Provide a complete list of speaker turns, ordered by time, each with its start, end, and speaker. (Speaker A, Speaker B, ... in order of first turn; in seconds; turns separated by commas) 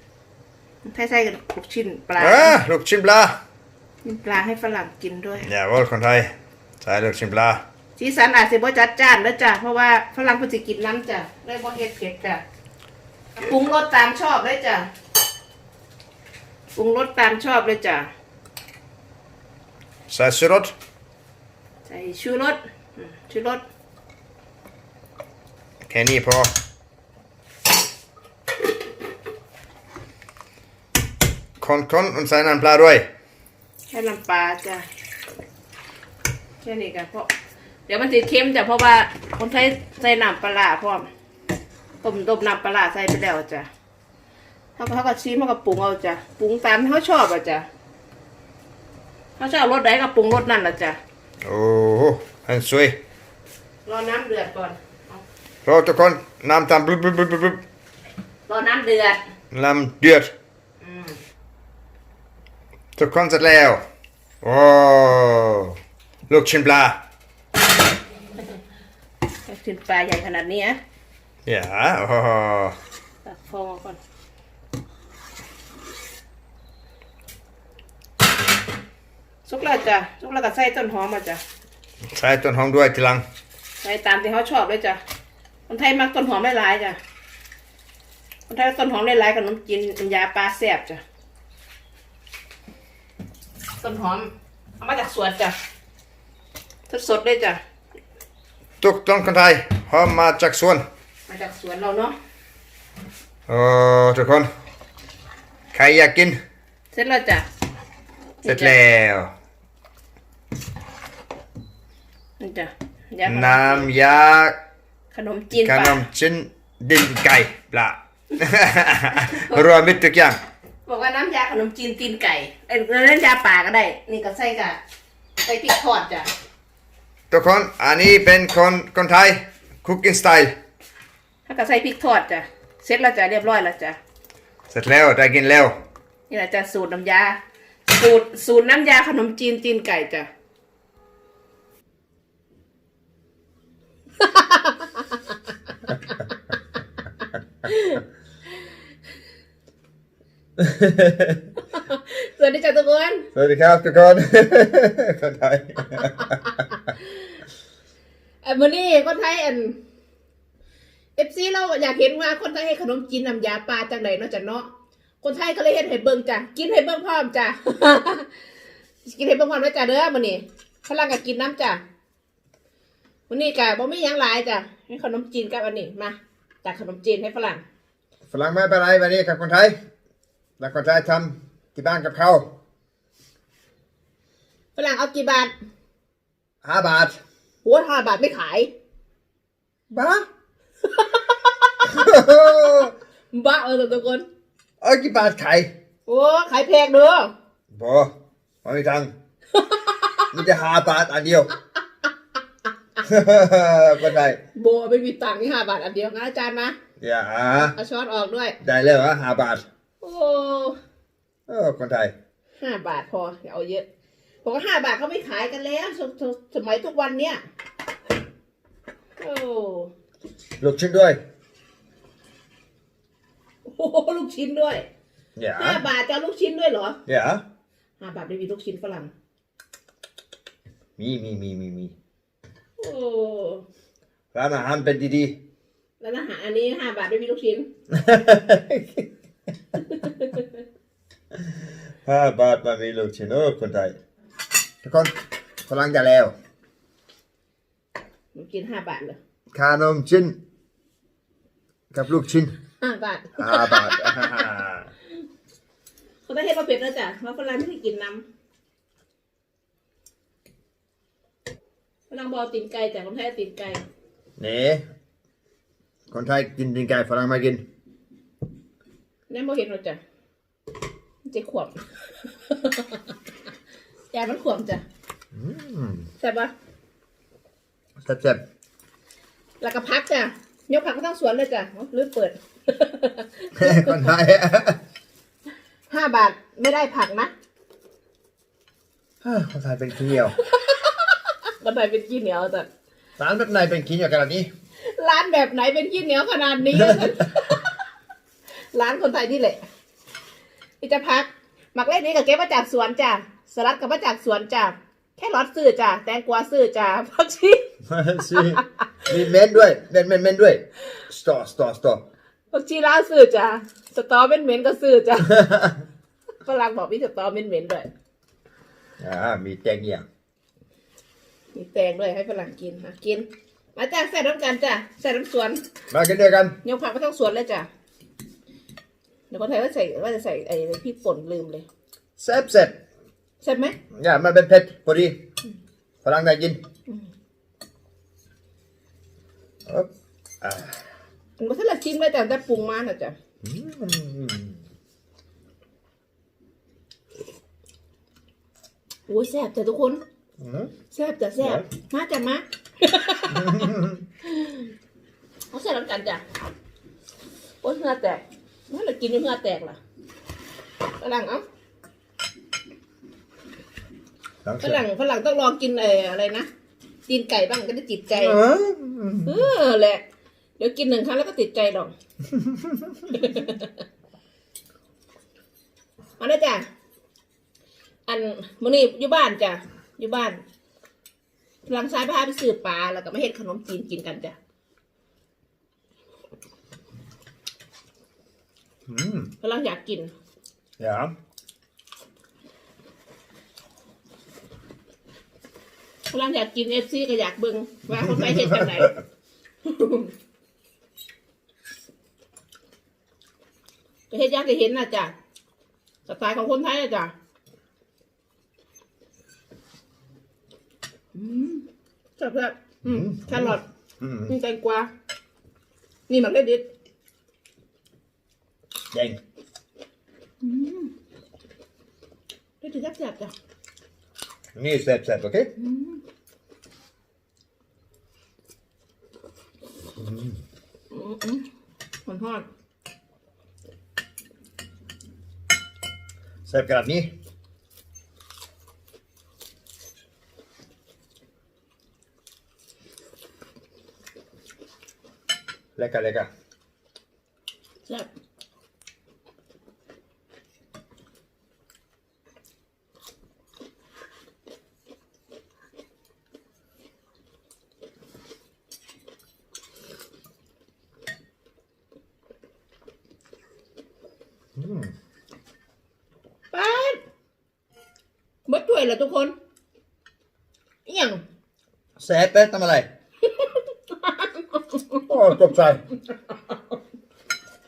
Speaker A: 0.8-2.6, Speaker B: 2.2-3.4, Speaker A: 4.0-5.5, Speaker B: 5.4-6.3, Speaker B: 6.8-7.6, Speaker A: 8.0-12.4, Speaker A: 13.4-14.9, Speaker A: 16.8-18.1, Speaker B: 20.1-20.7, Speaker A: 21.9-23.6, Speaker B: 25.9-26.5, Speaker B: 31.6-33.1, Speaker A: 33.9-34.9, Speaker A: 36.6-37.3, Speaker A: 37.9-41.1, Speaker A: 42.0-43.7, Speaker A: 44.8-47.7, Speaker A: 49.4-51.0, Speaker B: 51.4-53.0, Speaker A: 53.9-55.2, Speaker B: 55.7-57.6, Speaker A: 58.5-59.2, Speaker B: 59.5-60.3, Speaker A: 60.8-61.2, Speaker B: 63.0-63.8, Speaker B: 64.4-65.8, Speaker B: 66.3-67.0, Speaker A: 69.5-70.8, Speaker B: 71.5-72.8, Speaker A: 73.2-74.0, Speaker A: 79.5-81.4, Speaker B: 82.1-83.2, Speaker A: 83.8-85.0, Speaker A: 85.7-87.0, Speaker A: 88.5-91.0, Speaker A: 93.8-95.5, Speaker A: 96.9-97.6, Speaker B: 98.8-100.8, Speaker A: 101.3-102.2, Speaker B: 103.5-104.5, Speaker B: 105.7-106.4, Speaker A: 106.9-107.5, Speaker A: 108.4-108.8, Speaker B: 108.5-109.3, Speaker A: 112.4-113.8, Speaker B: 113.3-114.6, Speaker A: 115.1-116.0, Speaker B: 115.6-120.4, Speaker A: 119.2-119.7, Speaker A: 120.8-124.8, Speaker A: 125.4-126.3, Speaker B: 127.3-130.5, Speaker A: 131.5-134.0, Speaker B: 134.7-135.8, Speaker A: 136.3-140.3, Speaker A: 144.2-145.2, Speaker A: 145.9-146.2, Speaker A: 147.6-148.0, Speaker B: 150.6-151.4, Speaker A: 151.7-153.3, Speaker B: 153.3-156.6, Speaker A: 155.9-157.2, Speaker A: 158.4-159.8, Speaker A: 161.2-164.7, Speaker A: 165.2-168.3, Speaker A: 169.0-171.8, Speaker A: 173.3-177.6, Speaker B: 178.3-179.8, Speaker B: 180.6-182.5, Speaker A: 184.8-185.5, Speaker B: 186.6-187.2, Speaker A: 187.6-188.7, Speaker B: 189.9-190.3, Speaker A: 190.8-192.0, Speaker B: 191.8-192.9, Speaker A: 193.3-194.3, Speaker B: 194.8-195.7, Speaker A: 196.1-197.3, Speaker B: 197.7-198.1, Speaker B: 198.6-199.1, Speaker A: 199.5-200.3, Speaker B: 200.3-201.5, Speaker B: 203.0-204.4, Speaker A: 204.5-206.8, Speaker B: 207.0-207.8, Speaker A: 207.6-208.6, Speaker B: 208.6-209.7, Speaker A: 210.0-210.8, Speaker B: 211.5-212.1, Speaker A: 212.6-213.8, Speaker A: 214.4-217.4, Speaker A: 219.2-219.9, Speaker B: 220.6-221.2, Speaker A: 223.7-224.8, Speaker B: 225.3-225.8, Speaker A: 225.6-227.0, Speaker B: 227.1-227.4, Speaker A: 228.0-229.1, Speaker B: 231.0-231.9, Speaker A: 232.8-233.7, Speaker B: 234.3-235.3, Speaker A: 236.0-237.7, Speaker B: 237.9-239.1, Speaker A: 239.8-240.6, Speaker B: 241.4-244.0, Speaker B: 244.8-245.1, Speaker B: 245.7-246.3, Speaker A: 248.3-249.2, Speaker B: 249.5-250.4, Speaker B: 251.9-252.5, Speaker A: 252.8-254.5, Speaker B: 253.4-254.9, Speaker A: 256.2-258.2, Speaker A: 262.1-263.8, Speaker B: 264.4-264.8, Speaker B: 266.1-267.6, Speaker A: 269.3-270.0, Speaker A: 271.2-271.8, Speaker A: 272.5-273.1, Speaker A: 274.1-274.8, Speaker B: 275.3-276.1, Speaker A: 276.2-276.5, Speaker B: 278.0-278.4, Speaker A: 279.6-284.1, Speaker B: 283.6-284.8, Speaker A: 285.9-287.3, Speaker B: 289.2-290.4, Speaker A: 290.4-292.7, Speaker B: 293.2-294.5, Speaker A: 294.9-297.8, Speaker B: 296.8-297.1, Speaker A: 298.7-299.6, Speaker A: 300.8-307.6, Speaker B: 307.9-312.0, Speaker A: 308.4-308.8, Speaker A: 312.5-315.4, Speaker B: 315.4-315.8, Speaker A: 316.4-317.9, Speaker B: 319.0-320.0, Speaker A: 321.5-325.6, Speaker B: 325.9-326.6, Speaker A: 326.6-327.7, Speaker A: 329.3-331.6, Speaker B: 332.2-332.8, Speaker A: 333.4-333.8, Speaker B: 333.9-335.2, Speaker B: 336.0-336.6, Speaker B: 340.4-340.8, Speaker A: 341.4-343.1, Speaker B: 343.4-344.6, Speaker A: 349.1-350.0, Speaker B: 350.4-350.7, Speaker A: 350.9-354.7, Speaker B: 353.3-354.0, Speaker A: 355.5-356.2, Speaker A: 357.6-359.8, Speaker A: 361.0-361.4, Speaker B: 364.4-364.8, Speaker A: 364.6-366.5, Speaker A: 367.1-368.4, Speaker B: 368.1-369.4, Speaker A: 369.2-370.0, Speaker A: 370.6-371.9, Speaker B: 372.4-372.8, Speaker A: 373.1-373.8, Speaker A: 376.2-376.7, Speaker A: 378.1-380.4, Speaker A: 381.6-384.4, Speaker B: 388.9-389.3, Speaker A: 389.4-390.1, Speaker B: 390.8-391.1, Speaker A: 396.1-398.9, Speaker B: 397.9-398.9, Speaker A: 399.6-400.1, Speaker A: 404.1-405.1, Speaker A: 406.1-407.1, Speaker A: 411.1-411.6, Speaker A: 412.2-413.6, Speaker B: 412.8-414.3, Speaker A: 414.3-414.9, Speaker A: 416.1-416.6, Speaker B: 418.9-419.2, Speaker A: 420.4-420.9, Speaker A: 422.6-423.3, Speaker B: 424.6-425.5, Speaker A: 425.6-426.0, Speaker B: 429.9-430.4, Speaker A: 430.9-431.4, Speaker A: 432.1-432.4, Speaker B: 436.4-437.1, Speaker B: 445.8-446.3, Speaker B: 464.6-464.9, Speaker A: 466.5-467.0, Speaker A: 468.4-469.4, Speaker A: 470.9-471.2, Speaker B: 472.0-472.9, Speaker A: 473.2-475.0, Speaker B: 475.1-475.8, Speaker A: 476.3-476.8